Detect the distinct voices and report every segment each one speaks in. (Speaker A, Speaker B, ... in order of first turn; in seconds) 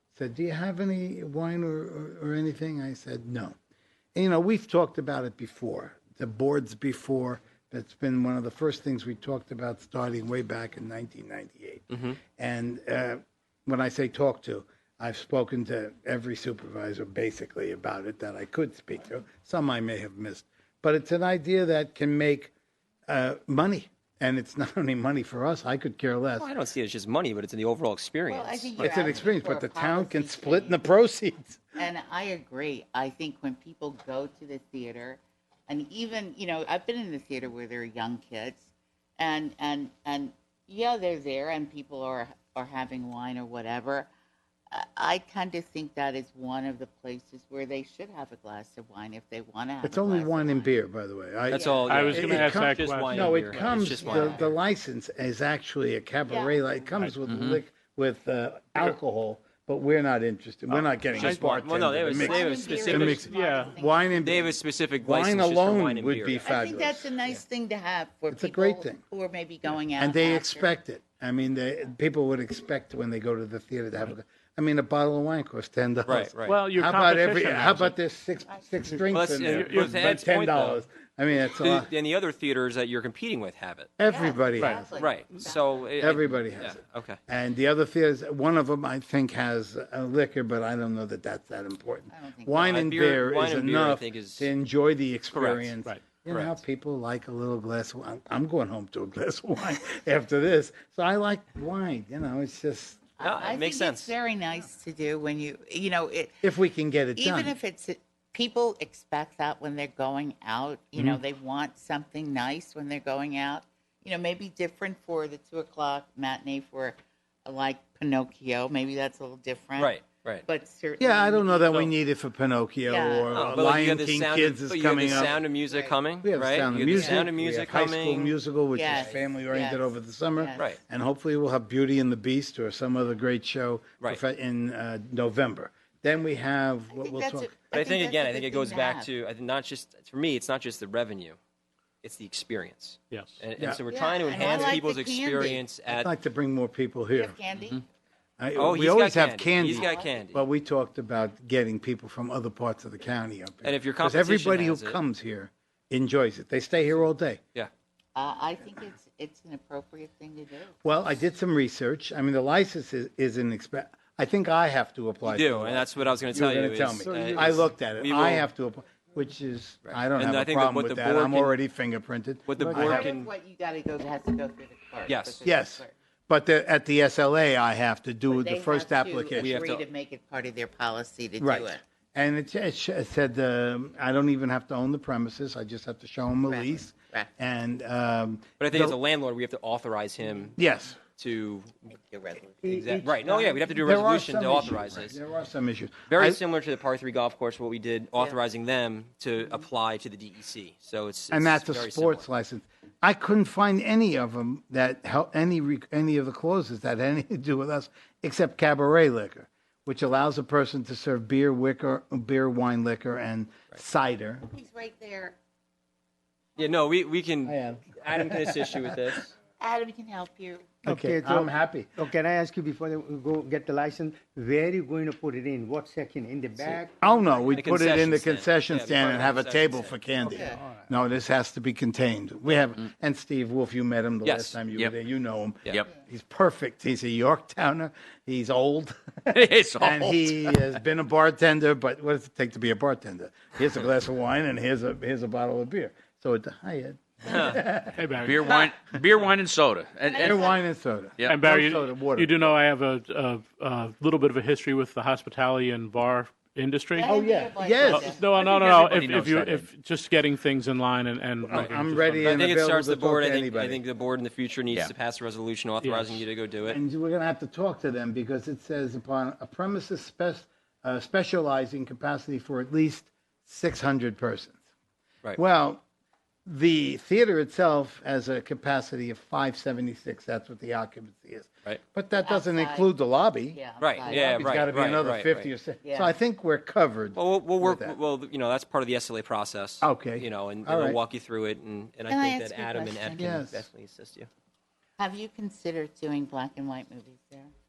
Speaker A: 0.1-3.5, 4.1-22.5, 23.1-26.5, 28.8-31.6, 49.8-67.2, 68.3-69.0, 70.0-81.9, 84.0-85.0, 86.0-103.0, 106.4-107.5, 121.0-125.4, 126.2-137.5, 144.3-144.8, 145.9-147.4, 148.4-157.4, 160.8-173.1, 175.4-179.6, 181.4-189.0, 190.6-191.0, 193.8-196.4, 201.3-214.5, 217.4-217.9, 220.8-221.9, 227.0-248.0, 250.2-252.4, 257.0-258.1, 261.4-263.8, 266.7-274.6, 275.4-275.8, 276.4-287.9, 289.8-291.0, 293.2-293.6
Speaker B: 11.9-12.2, 26.4-29.1, 51.5-54.5, 60.7-63.3, 64.2-66.4, 76.0-76.6, 79.1-83.9, 84.9-87.2, 92.6-94.5, 95.3-95.7, 96.3-96.6, 103.2-104.1, 119.8-120.4, 123.3-128.3, 137.7-141.4, 142.0-146.1, 148.5-150.4, 153.6-155.0, 165.2-168.5, 169.8-171.6, 172.4-173.3, 175.1-175.4, 179.4-179.8, 188.6-190.6, 191.2-191.9, 192.6-195.2, 196.1-202.3, 216.6-219.3, 227.5-230.0, 234.2-234.6, 247.3-247.5, 262.2-266.8, 283.8-285.5, 287.1-294.3
Speaker C: 28.3-30.8, 31.8-44.1, 44.7-50.7, 51.5-52.2, 53.9-54.4, 56.3-56.6, 62.1-64.5, 66.4-70.7, 84.0-85.7, 92.1-92.8, 103.2-106.4, 107.2-121.8, 122.8-123.6, 125.1-126.0, 126.8-127.3, 128.7-130.8, 136.9-139.1, 143.9-145.6, 147.1-147.8, 149.6-150.3, 158.1-160.8, 172.7-175.9, 178.3-181.8, 186.4-187.3, 191.9-192.7, 214.5-215.3, 219.6-220.8, 230.2-230.6, 250.1-250.6, 256.9-258.4, 282.2-282.9, 283.5-284.7, 285.8-286.1, 292.1-293.4, 295.0-297.5
Speaker D: 51.9-53.8, 61.2-61.4, 63.2-63.7, 76.4-78.0, 79.4-80.2, 84.6-84.8, 121.7-121.9, 143.1-143.4, 247.9-248.4, 251.2-257.1, 257.8-262.4, 265.8-266.2
Speaker E: 57.3-57.6, 234.7-234.9, 239.3-240.7, 248.2-250.5, 258.3-259.7, 264.7-264.9
Speaker F: 167.1-167.6, 192.7-193.6, 220.8-227.4, 230.2-230.9